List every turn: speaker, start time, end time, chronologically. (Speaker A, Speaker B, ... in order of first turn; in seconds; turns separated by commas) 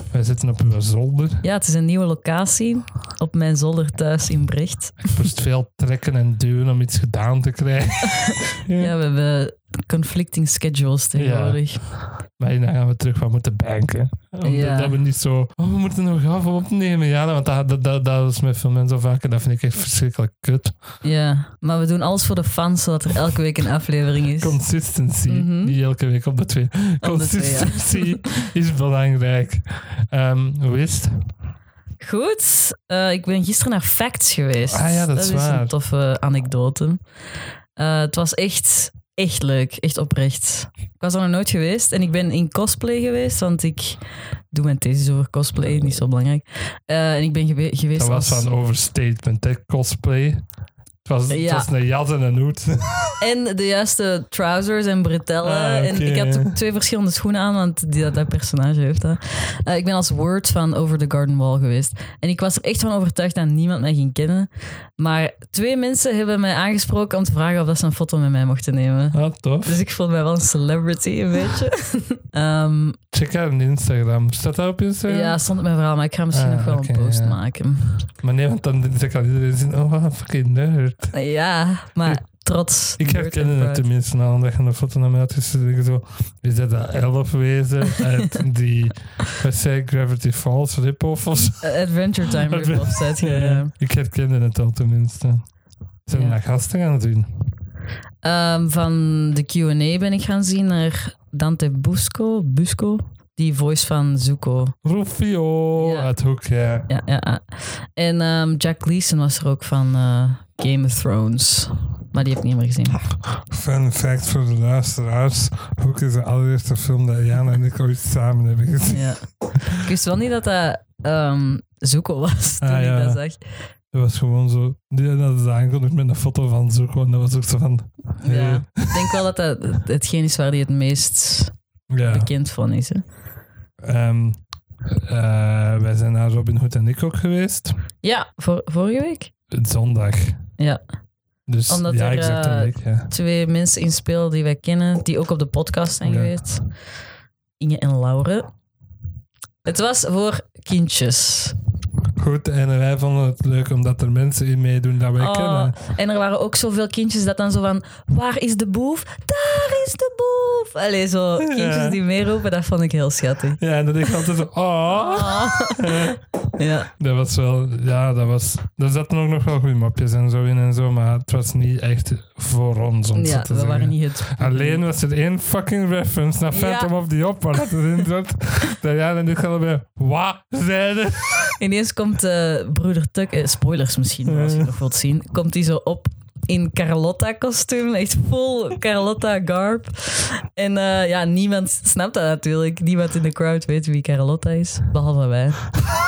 Speaker A: 0.1-1.4, Speaker B: 1.4-5.1, Speaker A: 5.1-8.9, Speaker B: 8.2-11.8, Speaker A: 11.2-11.6, Speaker A: 12.4-20.8, Speaker B: 14.4-14.9, Speaker B: 21.0-24.6, Speaker A: 24.4-31.3, Speaker B: 25.3-25.8, Speaker B: 27.0-28.2, Speaker B: 32.0-37.0, Speaker A: 34.7-35.7, Speaker B: 37.8-48.5, Speaker A: 48.0-50.4, Speaker A: 51.0-53.1, Speaker B: 51.3-51.7, Speaker B: 53.2-73.0, Speaker A: 55.4-56.5, Speaker A: 69.1-69.8, Speaker A: 73.1-75.4, Speaker B: 75.1-78.1, Speaker A: 76.3-77.4, Speaker A: 78.2-81.1, Speaker B: 81.1-83.8, Speaker A: 83.0-91.8, Speaker B: 91.6-93.7, Speaker A: 92.3-95.5, Speaker A: 96.1-97.3, Speaker B: 96.1-96.4, Speaker B: 98.2-104.8, Speaker A: 104.8-106.9, Speaker B: 105.8-106.1, Speaker B: 106.9-113.0, Speaker A: 113.4-119.1, Speaker B: 118.9-123.4, Speaker A: 122.6-123.2, Speaker A: 123.9-129.2, Speaker B: 128.2-131.5, Speaker A: 131.9-132.3, Speaker B: 132.1-133.0, Speaker A: 133.8-137.8, Speaker B: 138.0-139.3, Speaker A: 139.5-140.4, Speaker A: 141.5-143.1, Speaker B: 141.7-146.7, Speaker A: 146.0-146.3, Speaker B: 147.6-148.5, Speaker B: 149.6-151.6, Speaker A: 152.2-155.8, Speaker B: 155.2-163.6, Speaker A: 161.4-162.0, Speaker A: 163.6-166.2, Speaker B: 164.9-166.9, Speaker A: 167.0-181.6, Speaker B: 173.1-174.8, Speaker B: 176.5-176.9, Speaker B: 181.6-195.7, Speaker A: 184.3-184.7